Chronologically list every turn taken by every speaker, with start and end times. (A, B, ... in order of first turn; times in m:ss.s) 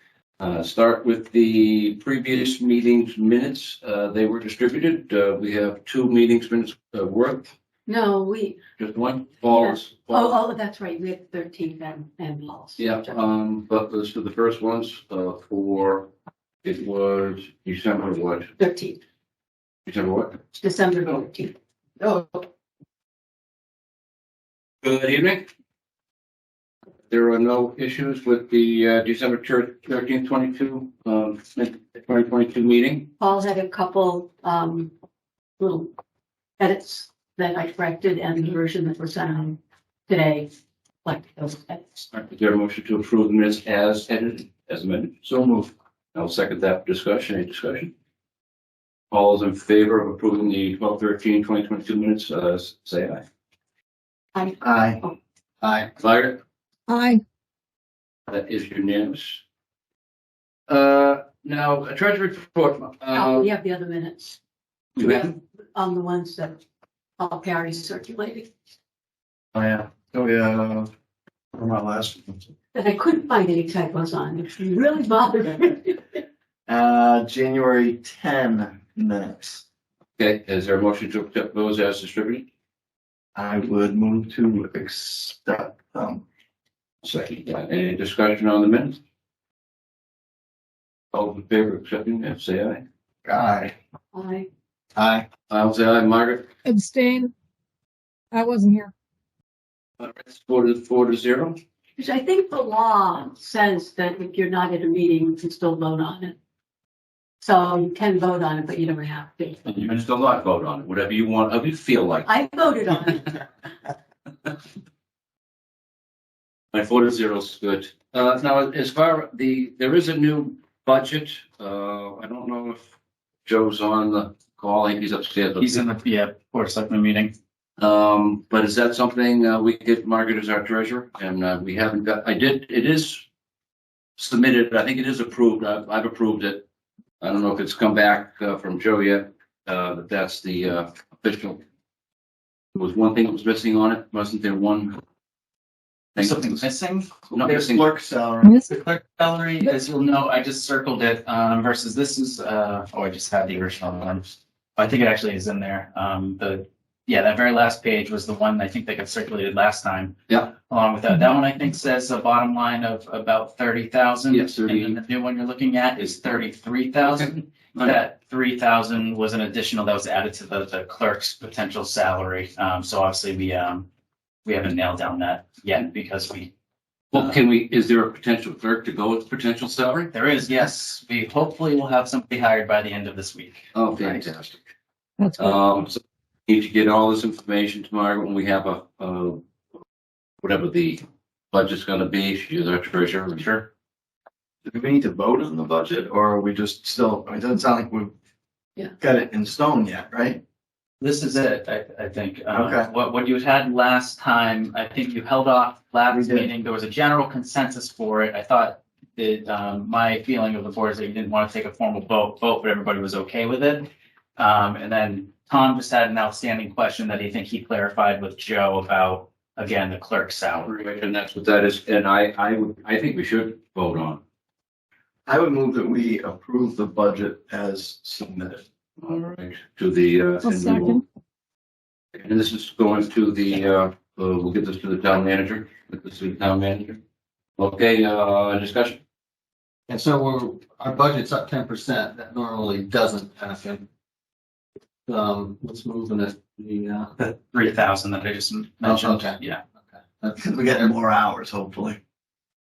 0:00.4-0:07.5 A
0:07.9-0:08.6 B
0:08.8-0:10.4 A
0:09.5-0:13.1 B
0:12.8-0:16.1 A
0:16.6-0:18.5 A
0:18.6-0:19.0 B
0:19.8-0:20.4 A
0:20.5-0:22.2 B
0:24.8-0:25.5 A
0:27.1-0:33.1 A
0:33.2-0:34.9 B
0:35.6-0:35.9 B
0:36.6-0:40.5 B
0:41.0-0:42.0 B
0:42.1-0:45.2 A
0:45.2-0:45.7 C
0:46.1-0:47.9 A
0:49.1-0:53.2 A
0:54.3-0:55.1 B
0:54.6-0:55.0 C
0:55.6-0:55.9 D
0:56.0-0:56.4 A
0:56.9-0:57.2 E
0:58.3-0:59.4 A
1:00.7-1:03.5 A
1:03.1-1:04.4 B
1:05.0-1:05.3 A
1:05.0-1:06.6 B
1:07.2-1:08.5 B
1:09.5-1:10.9 C
1:11.5-1:12.5 C
1:12.7-1:16.2 B
1:16.7-1:19.6 C
1:20.2-1:22.5 A
1:23.3-1:26.2 C
1:27.0-1:29.0 A
1:31.1-1:32.8 A
1:33.2-1:33.7 C
1:34.1-1:34.5 B
1:35.0-1:35.2 C
1:35.5-1:36.5 A
1:36.6-1:37.3 E
1:38.3-1:38.9 E
1:40.0-1:41.6 A
1:42.0-1:46.4 B
1:47.4-1:49.6 B
1:49.7-1:52.3 A
1:52.2-1:53.5 B
1:56.7-2:02.9 A
2:03.4-2:05.8 A
2:05.6-2:07.3 F
2:07.8-2:13.2 A
2:14.2-2:16.6 A
2:17.2-2:21.6 A
2:22.7-2:25.0 A
2:26.1-2:26.6 A
2:26.2-2:27.1 F
2:27.3-2:28.5 C
2:27.3-2:27.8 A
2:28.4-2:28.7 E
2:28.7-2:53.9 F
2:44.3-2:45.0 A
2:47.0-2:47.9 A
2:54.4-2:56.5 F
2:57.1-3:00.1 A
3:00.1-3:04.2 F
3:03.7-3:04.7 A
3:05.2-3:05.6 E
3:05.4-3:09.4 A
3:10.4-3:13.5 A
3:13.4-3:13.7 F
3:14.6-3:18.1 C
3:18.9-3:20.4 C
3:21.0-3:40.7 F
3:22.5-3:22.9 C
3:26.1-3:26.5 C
3:40.6-3:44.2 A
3:45.3-3:48.6 C
3:49.0-3:51.0 A
3:50.4-3:51.0 E
3:52.2-3:57.0 A
3:57.6-3:59.0 A
3:59.9-4:03.8 D
4:05.1-4:07.1 D
4:07.2-4:09.6 F
4:08.8-4:09.4 D
4:10.2-4:10.9 D
4:10.4-4:12.0 C